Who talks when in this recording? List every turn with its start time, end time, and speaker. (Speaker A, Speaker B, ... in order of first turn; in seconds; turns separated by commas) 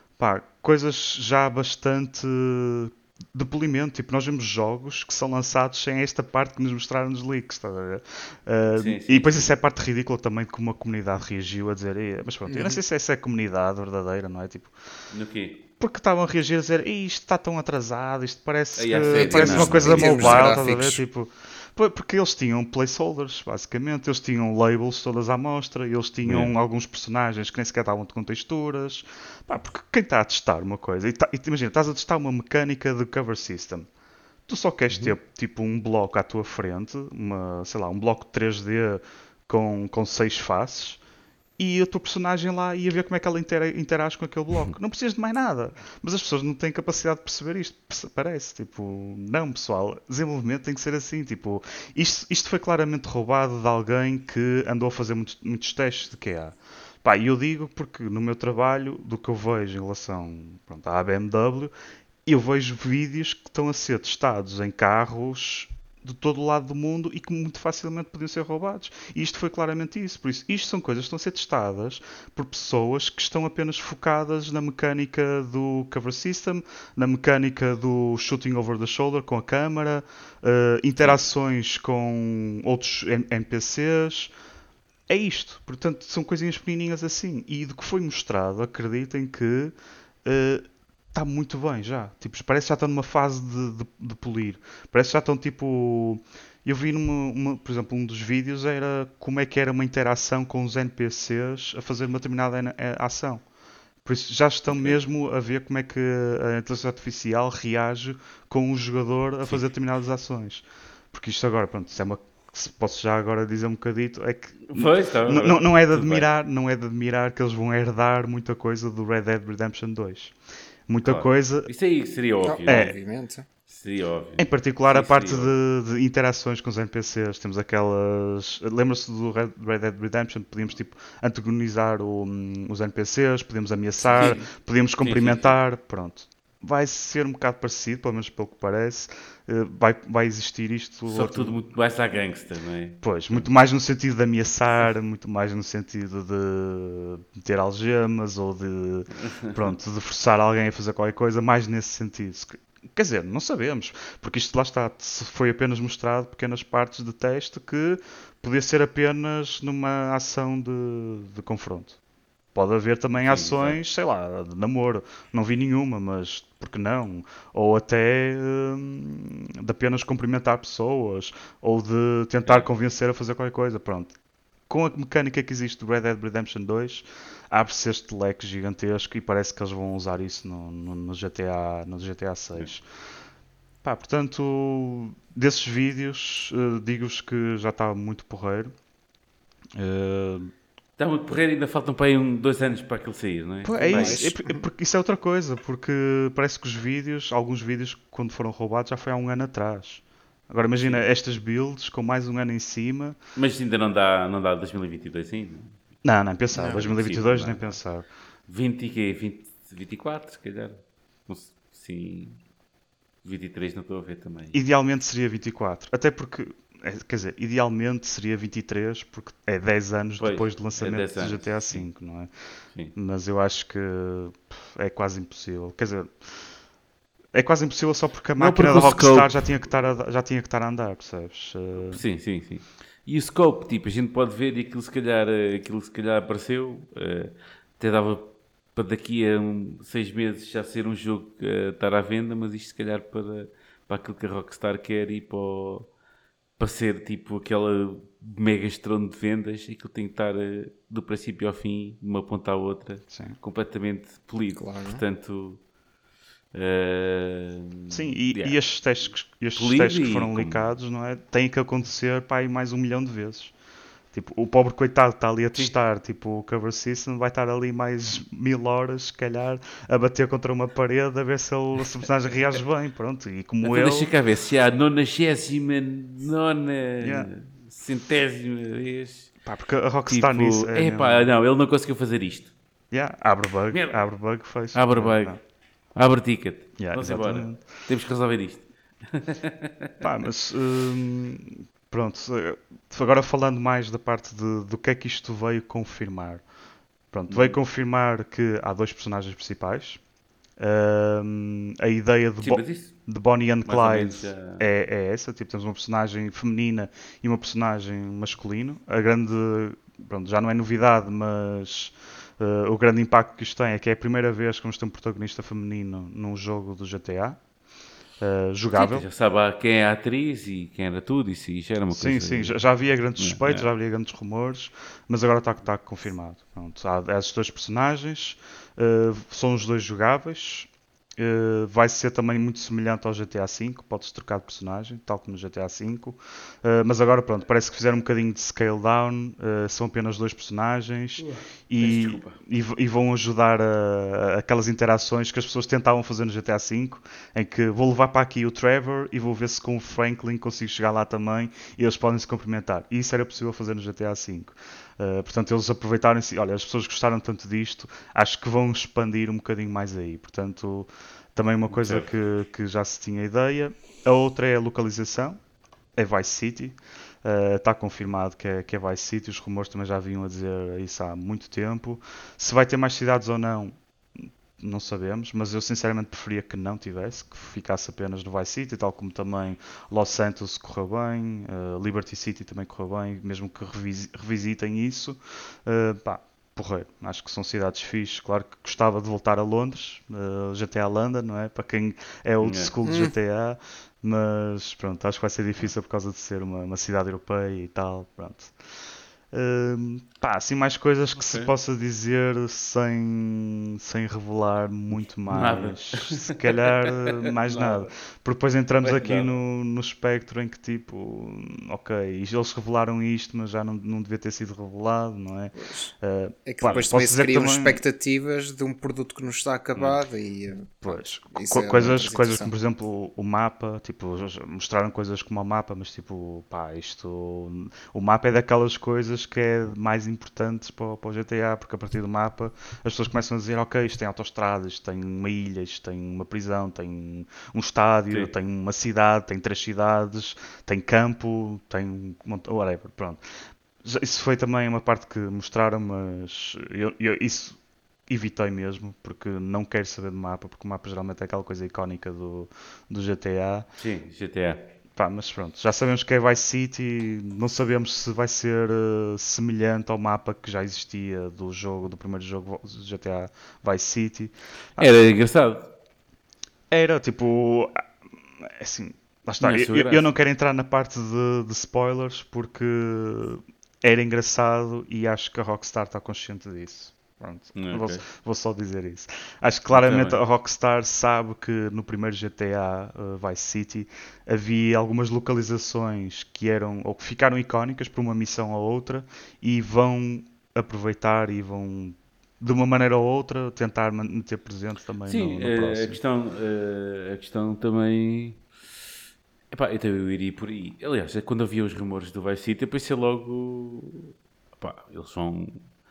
Speaker A: 0.2-14.7, Speaker B: 8.7-9.5, Speaker C: 12.5-12.8, Speaker B: 15.1-15.6, Speaker A: 15.8-33.9, Speaker B: 18.8-20.6, Speaker C: 19.1-21.0, Speaker B: 26.2-26.5, Speaker A: 34.5-41.0, Speaker A: 41.6-61.7, Speaker A: 62.2-84.3, Speaker B: 81.0-81.2, Speaker A: 85.1-103.4, Speaker A: 104.0-120.3, Speaker B: 104.7-105.0, Speaker B: 114.7-116.3, Speaker A: 120.9-121.7, Speaker B: 121.0-123.0, Speaker C: 122.4-123.5, Speaker A: 122.7-122.9, Speaker B: 123.7-125.5, Speaker A: 124.4-141.6, Speaker B: 134.1-134.5, Speaker B: 135.0-135.6, Speaker B: 141.1-143.5, Speaker A: 143.0-162.0, Speaker A: 162.5-174.1, Speaker B: 163.2-163.8, Speaker B: 172.4-172.7, Speaker A: 174.7-182.8, Speaker A: 183.8-188.7, Speaker A: 189.8-190.5, Speaker B: 191.0-194.3, Speaker A: 193.6-203.2, Speaker C: 193.8-194.5, Speaker B: 203.3-205.7, Speaker A: 206.0-208.1, Speaker C: 206.5-206.8, Speaker B: 206.5-207.7, Speaker B: 208.5-212.4, Speaker B: 213.2-214.6, Speaker A: 214.5-222.3, Speaker B: 220.2-221.8, Speaker A: 222.9-226.3, Speaker A: 227.3-232.0, Speaker B: 228.4-229.5, Speaker B: 231.8-245.9, Speaker B: 246.6-255.6, Speaker A: 253.1-253.4, Speaker C: 254.6-255.0, Speaker B: 256.5-258.6, Speaker A: 257.9-263.5, Speaker B: 259.5-260.7, Speaker A: 264.1-274.1, Speaker B: 273.6-279.3, Speaker A: 277.0-277.3, Speaker A: 279.4-281.3, Speaker B: 280.1-282.5, Speaker A: 282.9-285.4, Speaker B: 283.7-284.0, Speaker B: 284.7-285.4, Speaker B: 285.9-289.9, Speaker A: 286.8-287.6, Speaker A: 290.0-296.4, Speaker A: 297.1-300.0, Speaker B: 297.3-297.6, Speaker A: 300.6-317.4, Speaker B: 302.4-302.9, Speaker B: 303.6-304.6, Speaker A: 318.2-319.1, Speaker B: 318.7-322.6, Speaker A: 321.9-365.4, Speaker B: 323.2-323.7, Speaker B: 341.2-342.4, Speaker B: 361.7-362.1, Speaker A: 365.9-398.5, Speaker B: 392.4-392.7, Speaker C: 392.8-393.1, Speaker A: 399.3-417.8, Speaker B: 401.2-401.5, Speaker B: 405.3-407.9, Speaker B: 408.8-409.4, Speaker C: 415.6-415.9, Speaker C: 416.4-422.5, Speaker B: 419.8-420.0, Speaker A: 420.8-443.2, Speaker A: 443.8-453.7, Speaker B: 453.8-454.7, Speaker A: 454.9-465.0, Speaker B: 464.8-465.7, Speaker A: 466.7-467.8, Speaker A: 468.4-496.0, Speaker B: 469.4-470.1, Speaker B: 477.5-478.0, Speaker B: 479.7-480.2, Speaker B: 495.1-498.4, Speaker B: 499.5-505.6